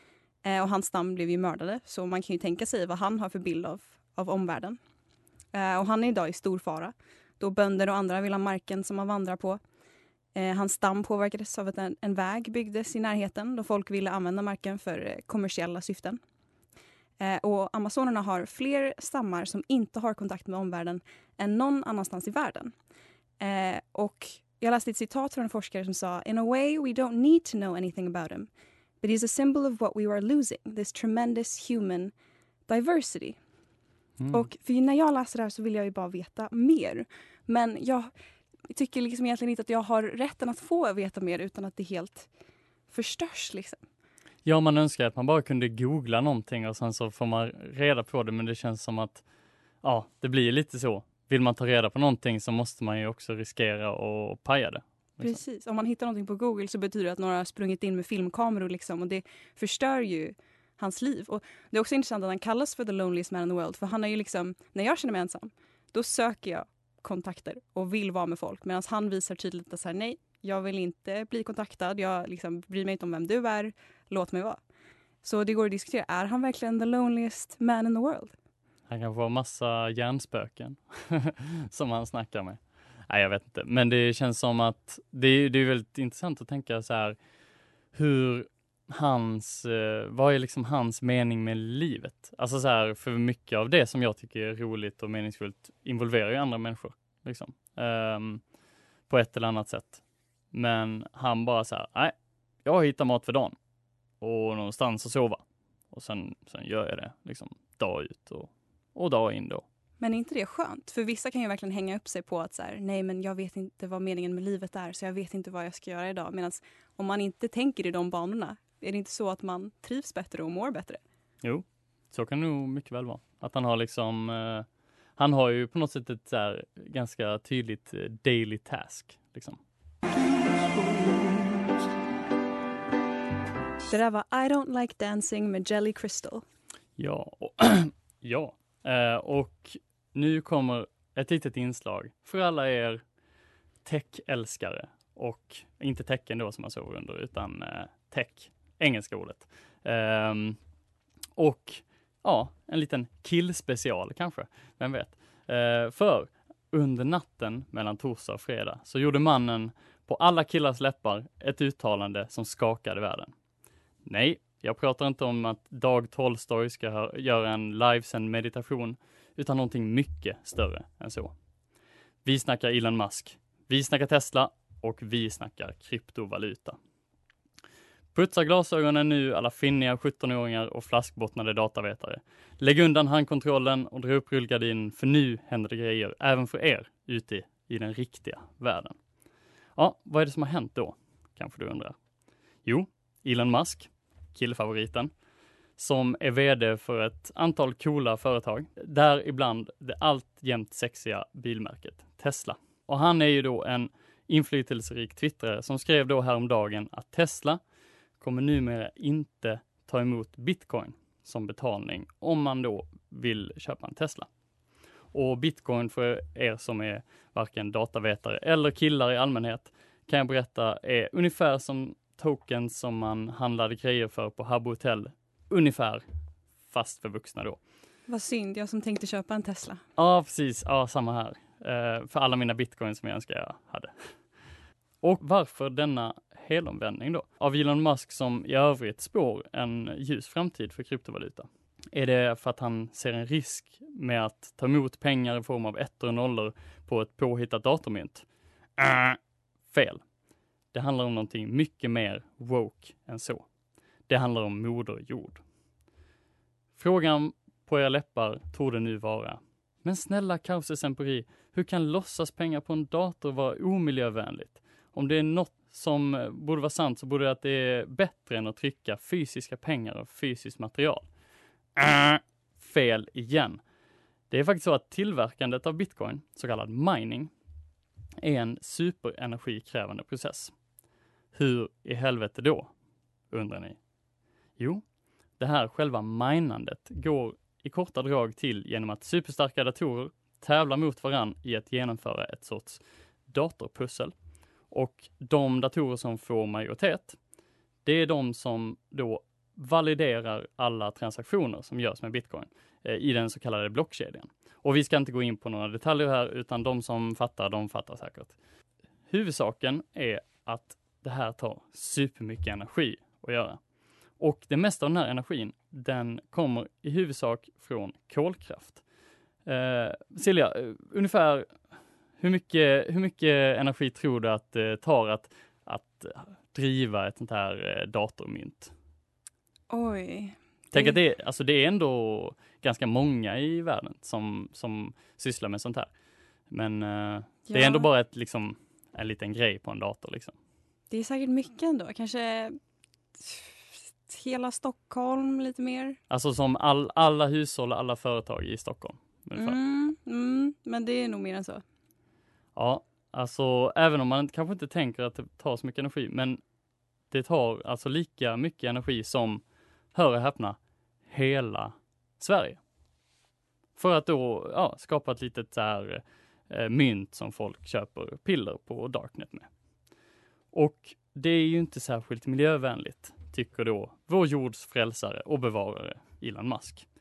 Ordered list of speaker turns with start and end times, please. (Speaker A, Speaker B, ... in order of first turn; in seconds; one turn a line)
Speaker A: 0.4-4.8
Speaker A: 5.5-9.6
Speaker A: 10.3-16.2
Speaker A: 17.2-22.7
Speaker A: 23.4-28.5
Speaker A: 29.0-32.1
Speaker A: 32.7-33.4
Speaker B: 34.2-34.5
Speaker A: 34.3-38.1
Speaker A: 38.7-42.3
Speaker A: 42.9-43.8
Speaker B: 44.5-49.2
Speaker B: 49.8-55.4
Speaker A: 55.2-74.6
Speaker A: 75.2-78.3
Speaker B: 78.9-87.2
Speaker B: 87.9-98.4
Speaker B: 99.1-100.0
Speaker B: 100.5-103.5
Speaker B: 104.2-109.6
Speaker A: 110.0-121.0
Speaker B: 121.4-124.7
Speaker B: 125.2-129.6
Speaker A: 133.9-136.4
Speaker B: 137.0-143.0
Speaker B: 143.8-150.6
Speaker B: 151.4-163.3
Speaker B: 164.1-171.3
Speaker B: 172.2-176.8
Speaker B: 178.1-189.0
Speaker B: 189.8-191.9
Speaker B: 192.7-195.1
Speaker B: 195.8-207.6
Speaker B: 208.2-214.3
Speaker B: 215.1-226.0
Speaker B: 226.7-227.6
Speaker A: 228.1-229.8
Speaker B: 230.0-234.2
Speaker B: 235.0-248.3
Speaker B: 248.8-249.2
Speaker B: 249.7-250.0
Speaker B: 250.7-253.4
Speaker B: 254.1-255.4
Speaker B: 256.8-271.1
Speaker B: 271.8-273.6
Speaker B: 274.3-277.3
Speaker B: 278.2-280.5
Speaker B: 281.3-282.7
Speaker B: 283.3-283.8
Speaker B: 284.6-284.8
Speaker B: 285.4-294.1
Speaker B: 294.7-297.2
Speaker B: 297.9-308.4
Speaker B: 309.1-313.6
Speaker B: 314.2-318.8
Speaker B: 319.5-321.5
Speaker B: 322.2-328.7
Speaker A: 329.7-331.0
Speaker B: 330.7-335.9
Speaker B: 336.5-340.4
Speaker A: 337.5-337.9
Speaker A: 340.9-342.6
Speaker A: 343.2-346.0
Speaker B: 346.1-349.6
Speaker A: 349.4-351.6
Speaker B: 352.6-356.4
Speaker B: 357.1-359.4
Speaker B: 359.9-362.6
Speaker B: 363.8-369.5
Speaker B: 370.5-376.9